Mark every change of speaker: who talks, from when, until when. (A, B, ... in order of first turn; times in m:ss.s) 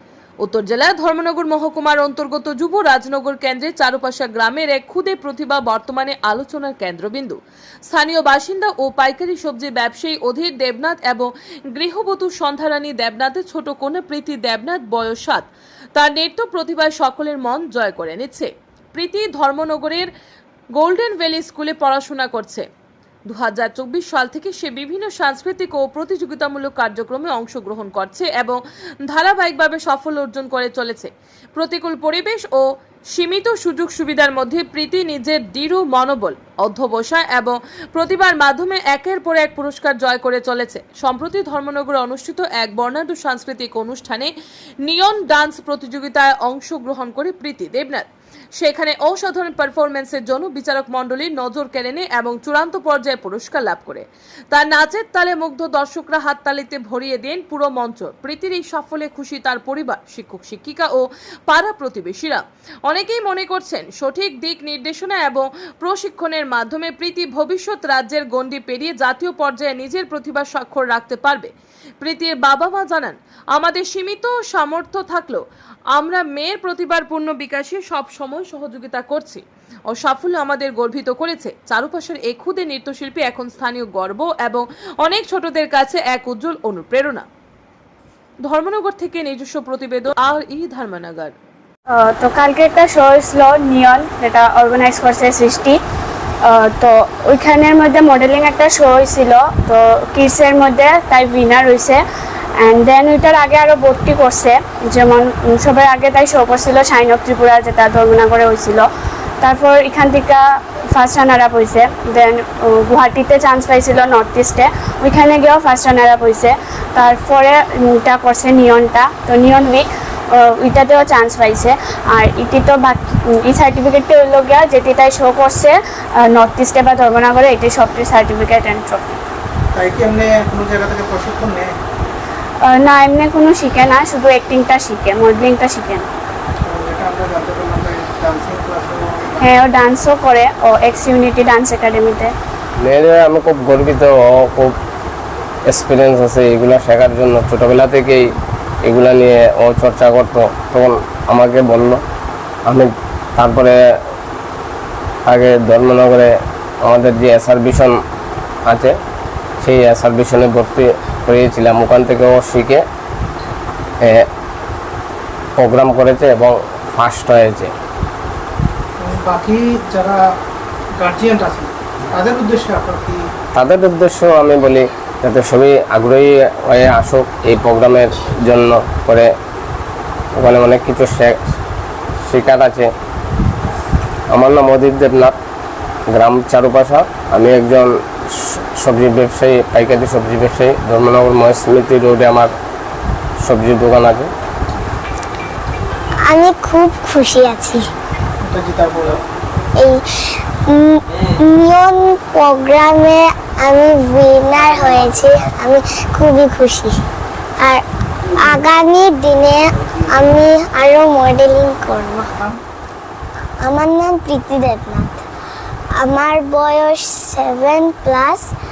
0:00.4-0:07.4 A
0:07.9-0:20.1 A
0:20.8-0:22.7 A
0:23.3-0:32.6 A
0:33.2-0:44.3 A
0:44.9-0:48.1 A
0:48.6-1:15.4 A
1:15.9-1:27.2 A
1:28.5-1:31.3 A
1:31.9-1:35.8 B
1:36.4-1:42.0 B
1:42.6-1:48.9 B
1:49.4-2:09.1 B
2:09.7-2:11.7 C
2:12.6-2:16.1 B
2:16.7-2:19.6 C
2:19.4-2:22.3 B
2:22.8-2:24.7 D
2:25.7-2:28.3 D
2:28.8-2:32.0 D
2:32.7-2:33.8 D
2:35.3-2:36.3 D
2:36.8-2:37.9 D
2:38.7-2:38.9 D
2:39.6-2:42.8 D
2:44.0-2:44.3 D
2:45.6-2:47.7 D
2:49.0-2:50.2 C
2:51.0-2:53.2 C
2:53.6-2:59.3 D
3:00.4-3:01.4 D
3:02.3-3:02.9 D
3:04.3-3:05.4 D
3:06.1-3:12.5 D
3:13.4-3:14.3 D
3:16.3-3:17.9 E
3:18.4-3:19.2 C
3:19.8-3:27.0 E
3:28.5-3:32.3 E
3:33.6-3:35.2 E
3:36.0-3:38.5 E